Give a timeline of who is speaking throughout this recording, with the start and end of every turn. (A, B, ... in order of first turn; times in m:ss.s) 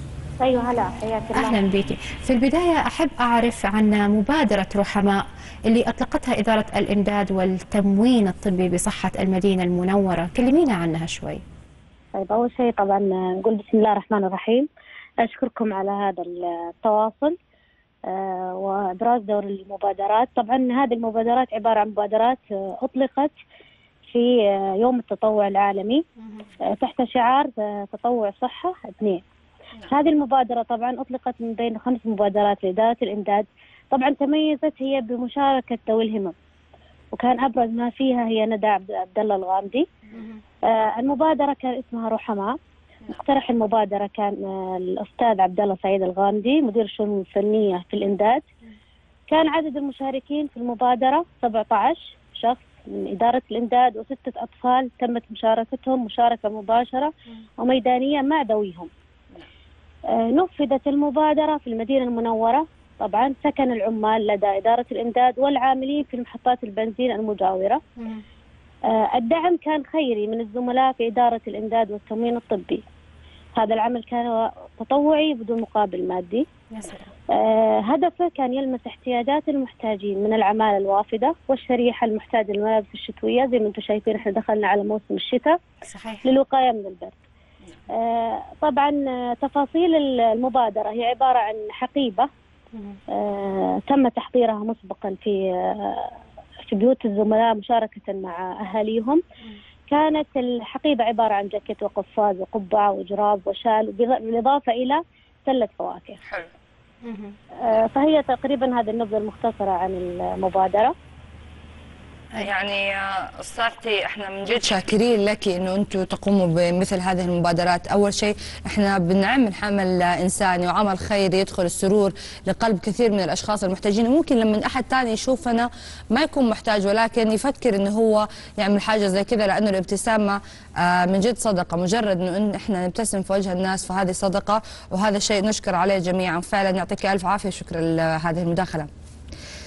0:00.4-0:01.6 A
0:01.3-0:11.4 B
0:12.2-0:14.7 A
0:15.2-0:17.3 A
0:18.1-0:23.3 A
0:24.1-0:26.0 A
0:26.2-0:26.4 B
0:26.8-0:29.2 A
0:29.9-0:36.3 A
0:37.2-0:39.9 A
0:40.1-0:40.4 B
0:40.7-0:42.6 A
0:43.1-0:48.4 A
0:49.3-0:58.9 A
1:00.1-1:07.8 A
1:08.9-1:12.8 A
1:13.6-1:16.5 A
1:16.7-1:17.1 B
1:17.3-1:25.6 A
1:25.8-1:26.2 B
1:26.2-1:27.2 A
1:27.9-1:32.3 A
1:33.1-1:36.1 A
1:36.7-1:39.2 A
1:39.9-1:46.2 A
1:47.0-1:47.4 B
1:47.6-1:50.9 A
1:52.4-2:18.9 C